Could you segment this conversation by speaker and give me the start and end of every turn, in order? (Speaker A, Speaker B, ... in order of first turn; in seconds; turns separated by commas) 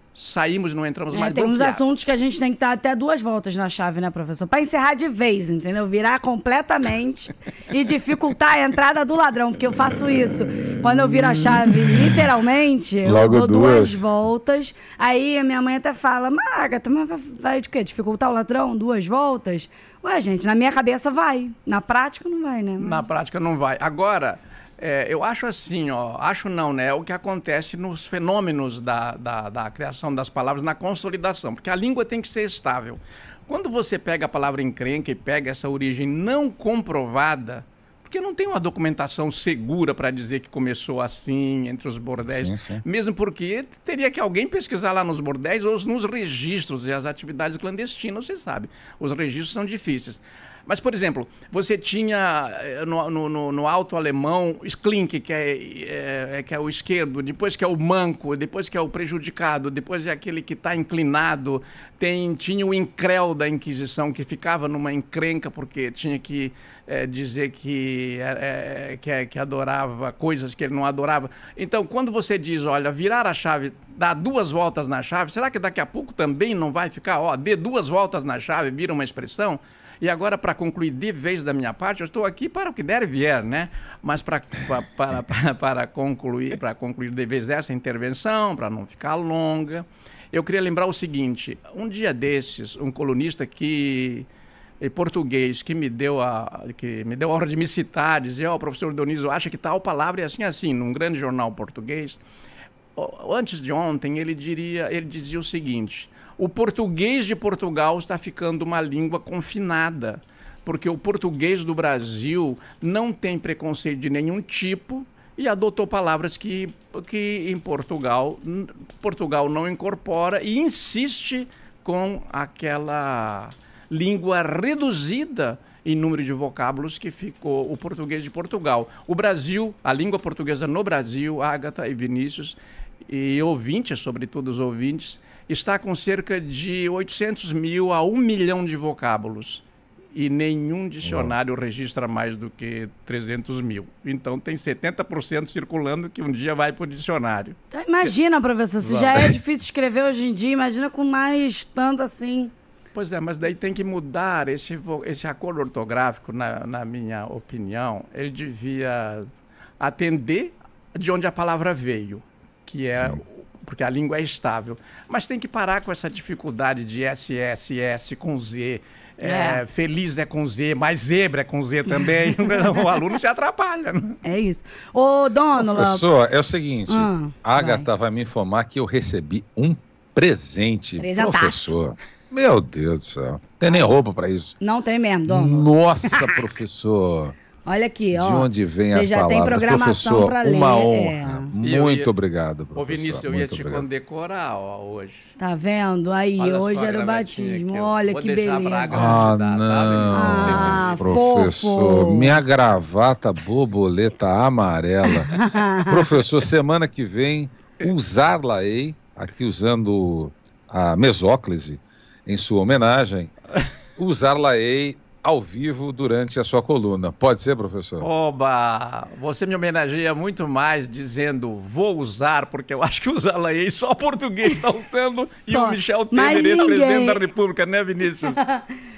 Speaker A: 0.1-1.8, Speaker B: 1.1-23.0, Speaker C: 13.0-14.0, Speaker A: 22.8-94.3, Speaker C: 42.2-42.8, Speaker A: 94.8-102.2, Speaker A: 103.0-139.6, Speaker A: 140.2-148.1, Speaker C: 141.0-141.3, Speaker B: 147.7-152.5, Speaker A: 148.8-149.3, Speaker A: 152.9-159.3, Speaker A: 159.8-174.2, Speaker C: 162.9-163.2, Speaker B: 169.2-169.6, Speaker B: 174.2-176.1, Speaker C: 175.6-184.6, Speaker B: 176.9-177.9, Speaker B: 181.0-181.7, Speaker B: 184.6-186.4, Speaker C: 185.3-187.3, Speaker B: 187.7-191.5, Speaker C: 188.1-193.9, Speaker A: 191.6-192.1, Speaker A: 192.8-195.3, Speaker B: 195.4-199.3, Speaker A: 196.4-201.2, Speaker C: 198.9-205.3, Speaker B: 200.1-202.4, Speaker B: 205.3-206.1, Speaker C: 205.9-213.3, Speaker C: 214.0-218.1, Speaker A: 218.0-228.4, Speaker B: 225.4-227.2, Speaker B: 228.3-228.6